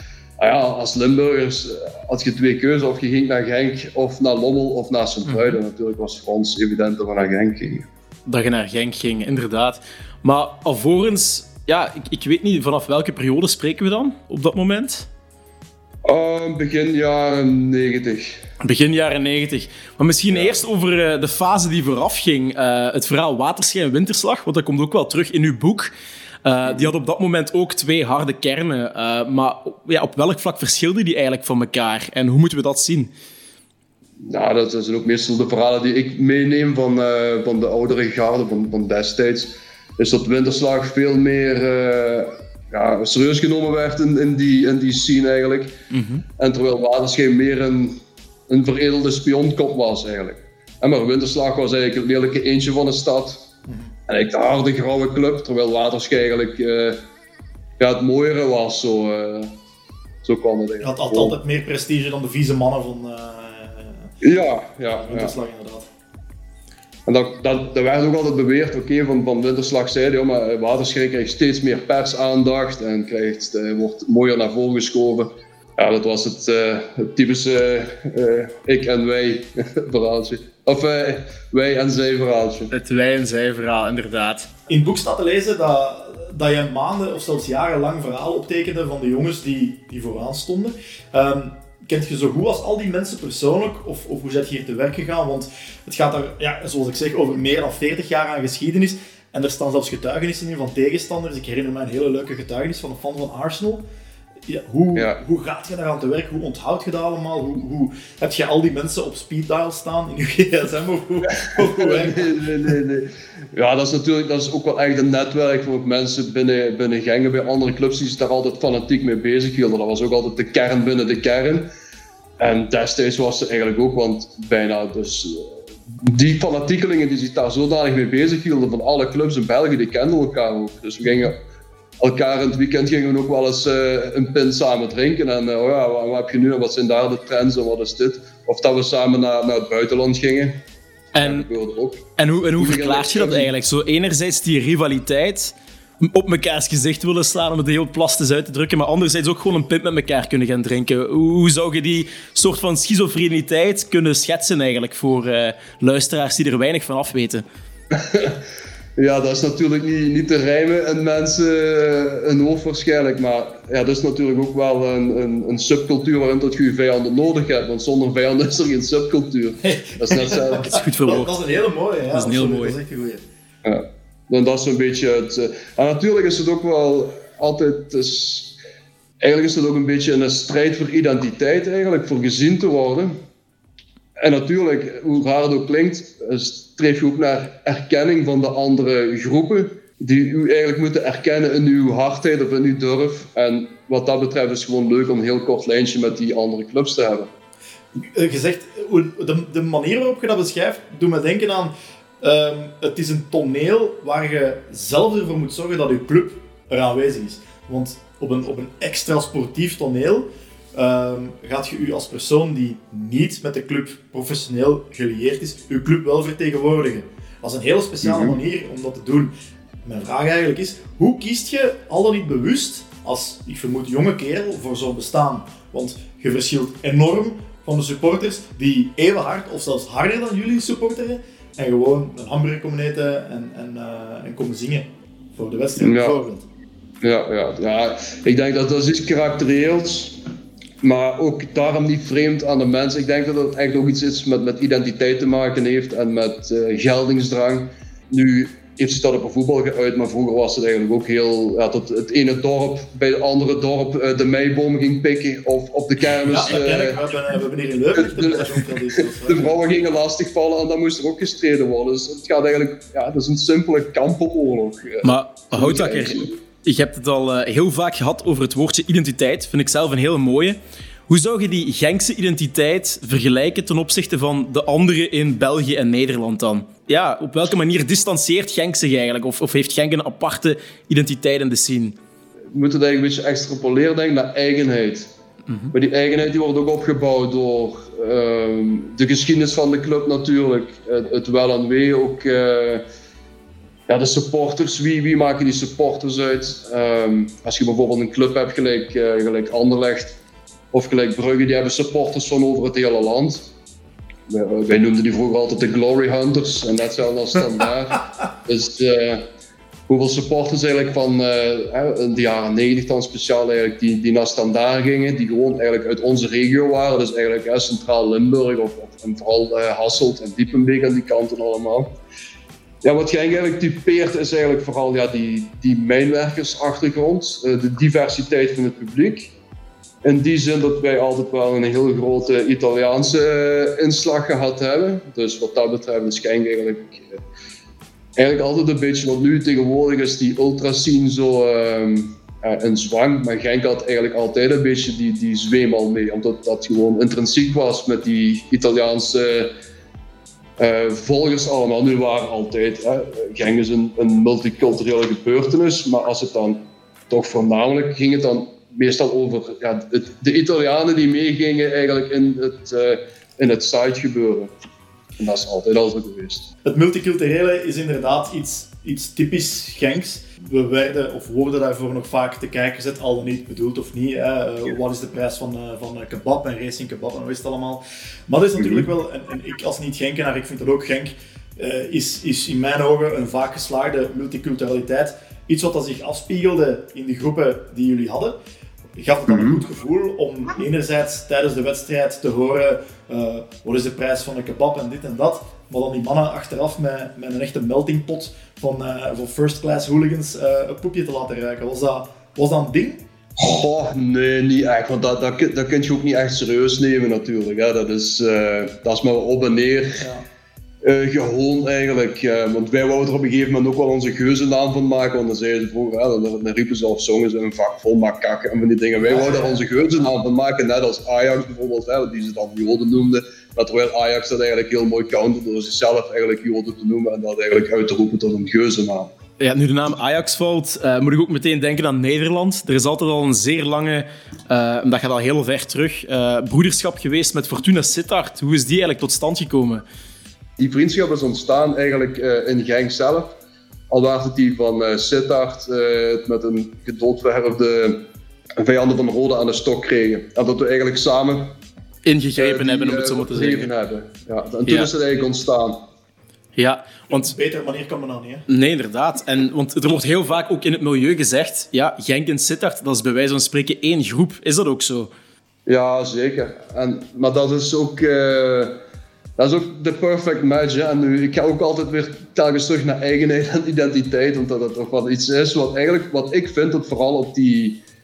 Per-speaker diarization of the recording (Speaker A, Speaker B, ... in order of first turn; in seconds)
Speaker A: 0.4-7.9, 16.1-18.4, 20.3-20.6, 34.3-45.8, 46.4-48.0, 48.5-53.4, 54.1-57.0, 57.8-59.5, 60.2-61.4, 64.2-65.3, 67.1-82.7, 111.4-121.7, 122.4-125.5, 126.0-131.4, 132.0-140.6, 141.2-142.0, 142.6-143.5, 157.9-158.4, 159.0-170.8, 173.7-178.6, 179.2-183.2, 184.2-197.3, 218.0-218.4, 235.8-236.2, 237.0-240.2, 240.8-257.0, 257.9-266.3, 282.5-285.1, 285.7-292.8, 293.9-300.2, 300.7-303.5, 304.3-309.2, 309.9-321.9, 322.8-329.3, 330.0-337.1, 338.2-349.5, 350.6-364.5, 365.2-366.5, 389.3-389.6, 403.4-410.1, 410.8-429.1, 440.6-443.4, 443.9-448.0, 448.6-451.6, 452.4-455.8, 465.7-468.8, 469.4-477.8
Speaker B: 5.3-5.6, 8.3-15.1, 18.6-25.9, 26.4-33.1, 45.9-46.2, 82.7-84.5, 141.1-141.5, 142.2-157.4, 170.5-171.3, 172.1-172.8, 265.0-282.0, 429.4-439.8, 452.1-453.7, 456.6-457.3, 458.5-465.1
Speaker C: 60.8-64.1, 64.9-65.9, 84.7-103.9, 104.5-112.7, 169.6-173.2, 198.1-219.3, 219.8-236.4, 256.3-259.6, 366.6-388.4, 389.0-403.0, 419.0-419.8, 457.1-458.4